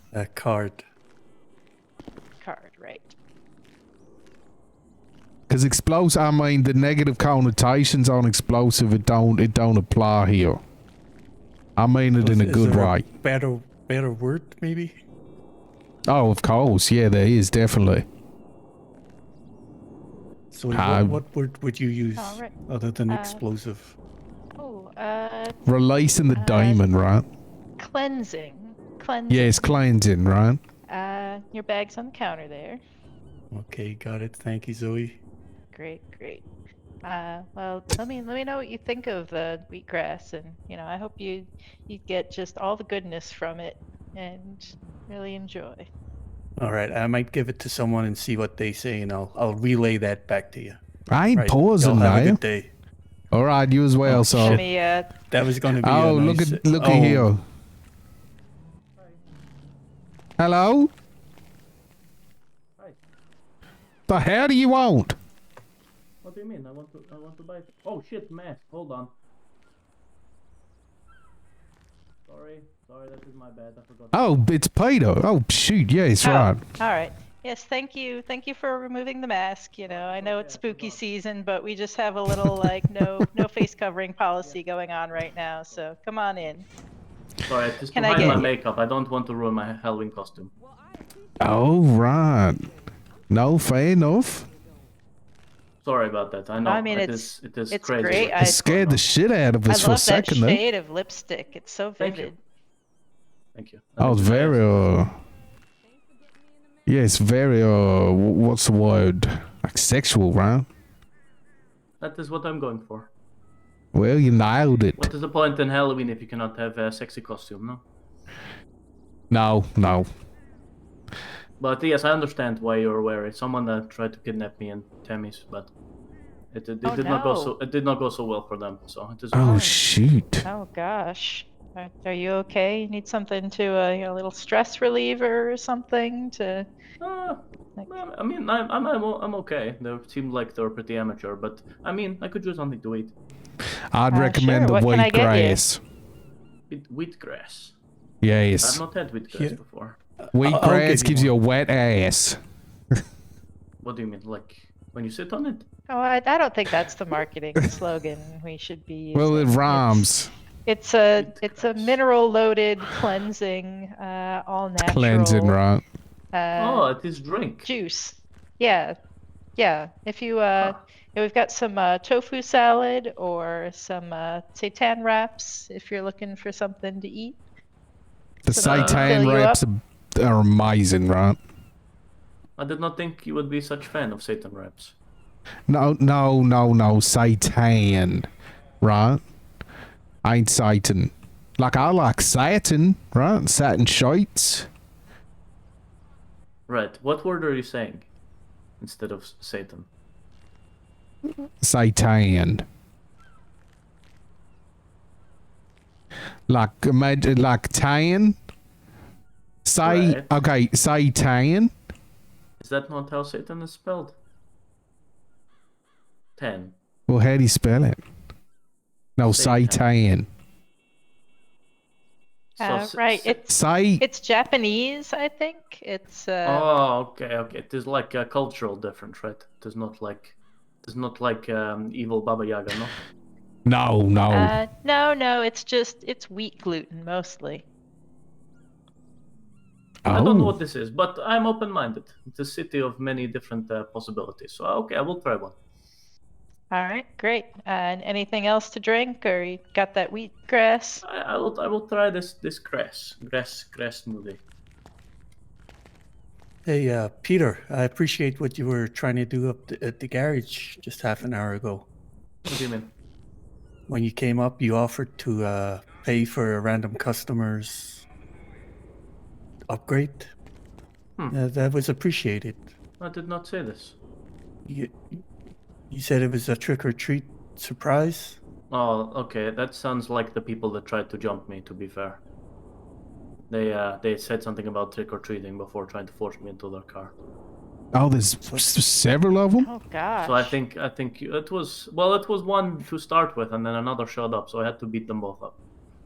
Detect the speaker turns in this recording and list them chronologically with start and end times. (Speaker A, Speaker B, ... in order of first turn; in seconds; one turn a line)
Speaker A: 0.1-0.8
Speaker B: 2.4-3.1
Speaker C: 5.5-10.6
Speaker C: 11.8-13.0
Speaker A: 12.2-14.9
Speaker C: 16.1-18.0
Speaker A: 20.5-23.9
Speaker C: 20.7-21.2
Speaker B: 22.2-22.5
Speaker B: 23.1-23.4
Speaker B: 24.6-25.6
Speaker C: 25.6-27.2
Speaker B: 26.3-26.8
Speaker B: 27.8-29.8
Speaker C: 29.3-30.6
Speaker B: 30.9-32.8
Speaker A: 33.5-35.2
Speaker B: 35.7-36.4
Speaker B: 37.0-45.9
Speaker A: 46.6-52.7
Speaker C: 51.1-52.4
Speaker C: 53.3-54.6
Speaker A: 54.1-54.5
Speaker B: 54.1-55.1
Speaker A: 55.3-57.3
Speaker C: 55.7-57.4
Speaker C: 60.4-60.9
Speaker C: 64.1-65.2
Speaker D: 66.2-69.1
Speaker D: 72.3-74.3
Speaker C: 74.1-76.6
Speaker B: 76.2-86.7
Speaker D: 79.9-81.0
Speaker D: 84.4-84.8
Speaker D: 87.5-90.5
Speaker B: 87.9-88.5
Speaker C: 91.4-92.7
Speaker C: 93.3-94.5
Speaker D: 95.8-99.0
Speaker B: 96.6-98.6
Speaker C: 98.3-100.6
Speaker B: 99.7-102.4
Speaker D: 102.0-102.3
Speaker D: 103.5-104.7
Speaker C: 104.0-105.1
Speaker C: 106.8-110.7
Speaker D: 112.0-113.1
Speaker C: 113.9-115.1
Speaker D: 115.0-117.8
Speaker C: 119.3-120.1
Speaker D: 121.6-125.7
Speaker D: 126.5-129.6
Speaker B: 126.8-127.5
Speaker C: 129.3-130.4
Speaker B: 129.4-129.8
Speaker B: 130.4-136.7
Speaker D: 137.0-143.1
Speaker C: 143.9-145.8
Speaker B: 144.1-145.6
Speaker D: 146.7-147.8
Speaker C: 148.2-148.8
Speaker D: 148.6-150.0
Speaker A: 149.3-149.6
Speaker A: 150.2-151.3
Speaker C: 150.3-152.4
Speaker D: 153.8-155.7
Speaker B: 155.9-160.1
Speaker C: 159.1-160.3
Speaker B: 160.7-165.6
Speaker D: 161.2-162.0
Speaker C: 164.8-165.8
Speaker B: 166.3-166.9
Speaker D: 166.6-167.7
Speaker B: 167.6-168.9
Speaker B: 169.6-177.4
Speaker C: 178.4-181.4
Speaker B: 178.5-179.6
Speaker D: 178.6-179.3
Speaker D: 182.6-184.9
Speaker C: 185.7-188.3
Speaker C: 188.8-189.2
Speaker C: 190.2-194.7
Speaker D: 196.7-198.1
Speaker D: 198.8-199.9
Speaker C: 201.6-202.6
Speaker C: 206.5-208.4
Speaker C: 209.6-211.7
Speaker D: 209.8-210.3
Speaker D: 212.6-214.2
Speaker D: 216.4-216.8
Speaker C: 217.1-218.0
Speaker C: 219.2-220.3
Speaker D: 219.2-219.8
Speaker D: 222.6-223.4
Speaker B: 222.6-226.7
Speaker C: 223.5-224.0
Speaker D: 226.4-232.9
Speaker C: 233.7-234.6
Speaker B: 234.3-237.6
Speaker C: 240.0-240.5
Speaker D: 240.1-245.6
Speaker B: 246.7-251.0
Speaker D: 251.0-254.4
Speaker A: 256.6-261.9
Speaker D: 262.4-262.9
Speaker A: 263.9-268.1
Speaker A: 269.7-270.3
Speaker A: 271.3-272.7
Speaker D: 273.0-273.9
Speaker A: 274.7-275.2
Speaker A: 275.9-278.4
Speaker D: 278.7-282.2
Speaker D: 283.5-287.1
Speaker C: 287.9-289.7
Speaker B: 289.6-290.6
Speaker D: 290.2-295.5